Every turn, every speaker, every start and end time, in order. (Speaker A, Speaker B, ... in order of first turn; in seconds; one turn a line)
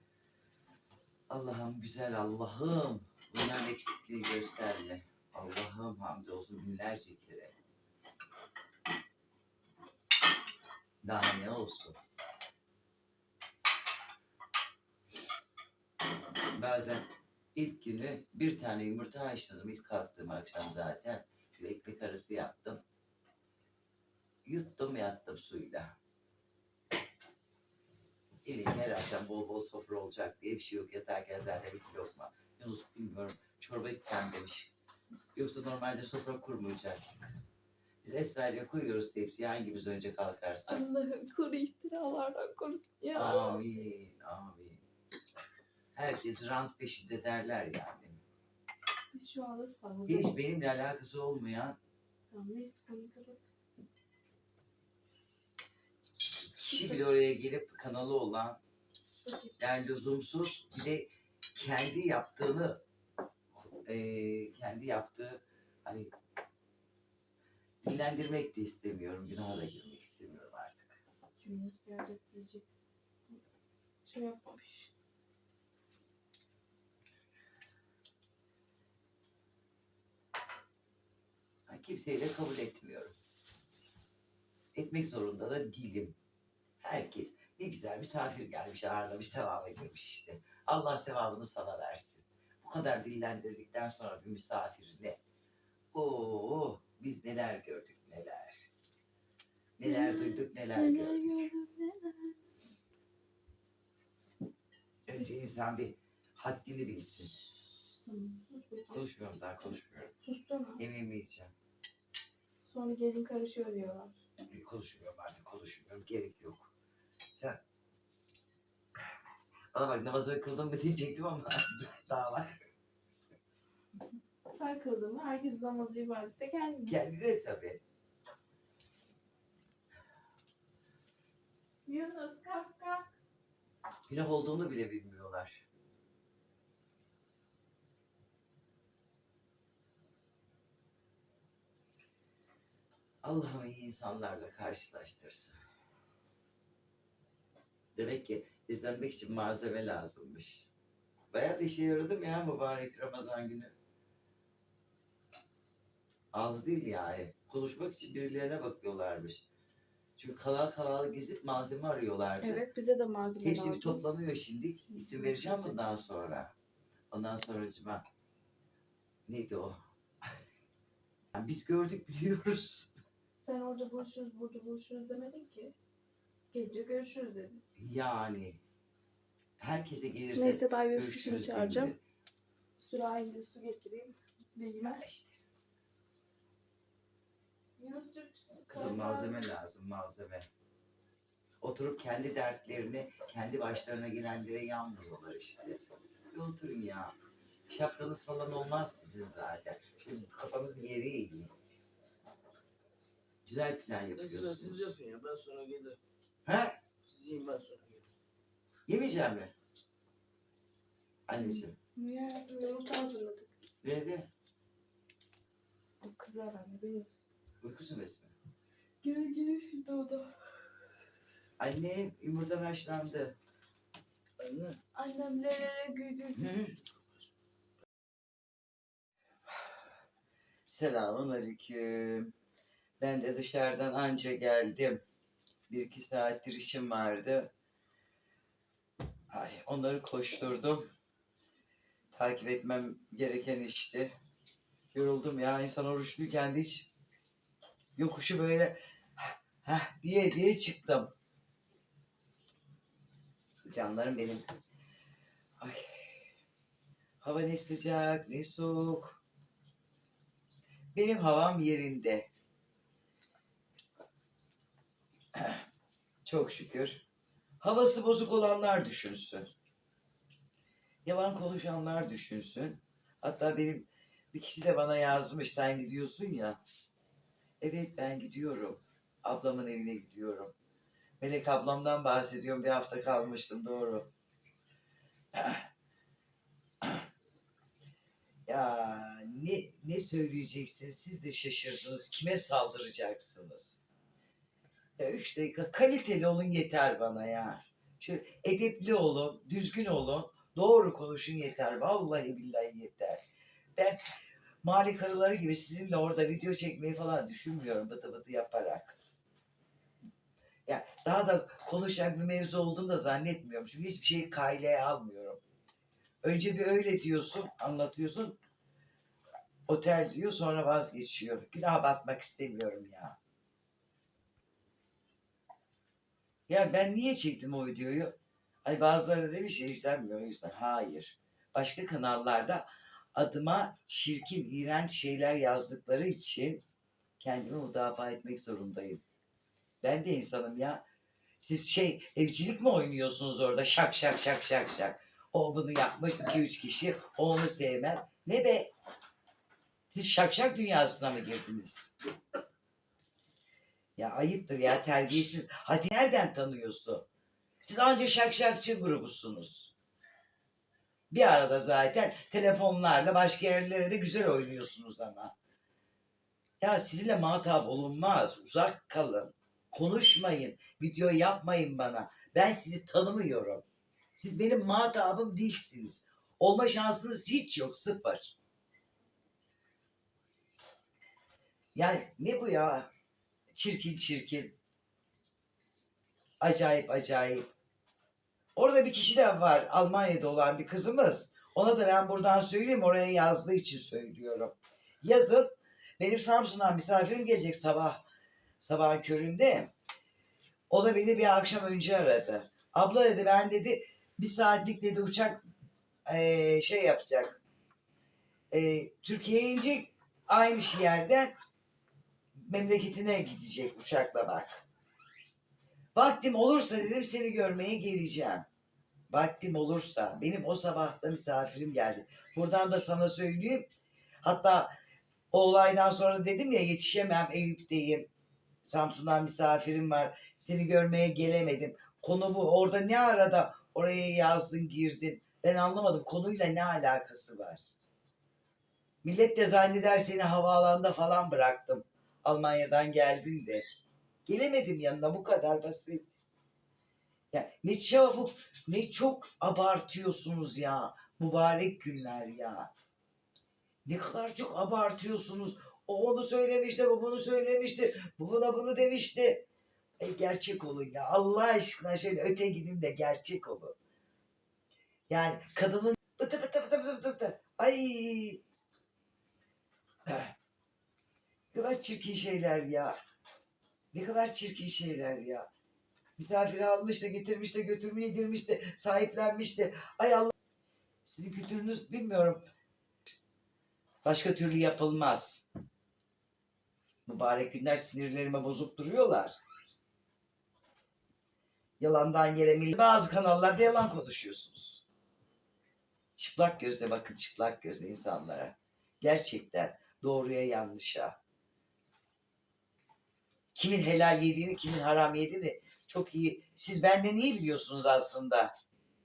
Speaker A: 1.3-7.5
Speaker A: 11.0-12.0
Speaker A: 16.5-22.8
Speaker A: 24.4-25.9
Speaker A: 28.4-34.7
Speaker A: 35.3-37.3
Speaker A: 38.0-40.8
Speaker B: 40.7-43.6
Speaker A: 43.1-44.8
Speaker A: 45.9-48.2
Speaker B: 49.1-50.4
Speaker A: 50.1-51.8
Speaker B: 52.3-53.5
Speaker A: 56.5-58.6
Speaker B: 56.7-57.0
Speaker B: 59.1-59.5
Speaker A: 59.6-62.8
Speaker A: 63.6-66.1
Speaker A: 67.8-71.0
Speaker B: 71.4-72.7
Speaker B: 74.0-74.9
Speaker A: 81.7-83.1
Speaker A: 84.7-86.2
Speaker A: 86.8-95.2
Speaker A: 95.9-98.7
Speaker A: 99.8-101.3
Speaker B: 99.8-102.3
Speaker A: 105.1-107.3
Speaker B: 108.0-109.0
Speaker A: 108.9-110.1
Speaker B: 110.2-110.8
Speaker A: 110.8-111.5
Speaker B: 112.7-114.2
Speaker A: 114.5-116.7
Speaker A: 119.7-122.5
Speaker B: 124.5-127.0
Speaker A: 126.8-127.8
Speaker B: 131.8-133.1
Speaker A: 134.1-135.6
Speaker A: 143.2-145.5
Speaker A: 147.9-150.7
Speaker A: 151.3-153.7
Speaker A: 156.3-159.4
Speaker A: 160.2-162.6
Speaker B: 162.4-164.0
Speaker A: 163.4-166.5
Speaker B: 164.9-165.8
Speaker A: 167.1-168.0
Speaker A: 169.3-169.8
Speaker A: 171.3-172.9
Speaker B: 173.4-175.7
Speaker B: 176.5-177.6
Speaker A: 177.8-178.6
Speaker A: 179.6-182.0
Speaker B: 180.3-181.9
Speaker B: 182.8-185.0
Speaker A: 185.0-185.4
Speaker B: 187.8-189.5
Speaker A: 188.7-190.5
Speaker A: 191.6-197.1
Speaker A: 197.7-201.5
Speaker A: 203.4-205.0
Speaker C: 204.2-206.0
Speaker A: 206.4-206.8
Speaker C: 207.1-208.1
Speaker A: 208.9-209.5
Speaker A: 211.3-211.7
Speaker B: 211.4-213.5
Speaker A: 213.8-214.3
Speaker B: 216.0-217.2
Speaker A: 217.6-218.3
Speaker B: 219.0-220.5
Speaker A: 221.6-223.3
Speaker A: 224.4-224.8
Speaker B: 224.9-226.6
Speaker A: 226.3-226.8
Speaker A: 230.7-232.3
Speaker A: 233.0-235.0
Speaker A: 235.7-237.5
Speaker A: 239.3-240.8
Speaker A: 242.1-244.1
Speaker A: 244.9-246.9
Speaker A: 247.9-251.1
Speaker A: 253.7-254.4
Speaker A: 255.6-256.1
Speaker A: 257.2-259.2
Speaker A: 260.9-262.3
Speaker A: 265.3-265.6
Speaker A: 266.2-267.1
Speaker A: 267.6-269.5
Speaker A: 271.0-276.6
Speaker A: 277.6-280.5
Speaker A: 281.2-284.1
Speaker A: 285.3-285.6
Speaker A: 288.4-293.8
Speaker A: 295.0-303.2
Speaker A: 303.8-304.0
Speaker A: 304.6-308.9
Speaker A: 310.6-315.4
Speaker A: 316.2-318.4
Speaker A: 319.7-323.2
Speaker A: 326.5-336.6
Speaker A: 337.2-339.0
Speaker A: 339.8-340.8
Speaker A: 341.4-348.7
Speaker A: 349.9-351.9
Speaker A: 354.0-357.1
Speaker A: 357.6-359.7
Speaker A: 361.1-365.3
Speaker A: 366.6-373.6
Speaker A: 374.1-378.3
Speaker A: 381.7-382.9
Speaker A: 383.5-384.5
Speaker A: 386.4-387.4
Speaker A: 388.5-398.0
Speaker A: 398.6-399.7
Speaker A: 400.7-405.4
Speaker A: 406.1-407.4
Speaker A: 408.5-411.3
Speaker A: 412.5-414.5
Speaker A: 415.9-418.4
Speaker A: 419.1-423.7
Speaker A: 424.2-424.7
Speaker A: 425.3-428.1
Speaker A: 428.6-437.7
Speaker A: 439.0-443.6
Speaker A: 444.2-446.1
Speaker A: 447.3-452.7
Speaker A: 453.9-459.4
Speaker A: 460.0-463.7
Speaker A: 465.1-468.4
Speaker A: 470.1-470.3
Speaker A: 471.5-472.9
Speaker A: 473.9-475.5
Speaker A: 476.2-480.3
Speaker A: 481.0-482.4
Speaker A: 484.0-485.4
Speaker A: 487.1-489.4
Speaker A: 491.8-494.8
Speaker A: 496.1-501.2
Speaker A: 503.5-508.5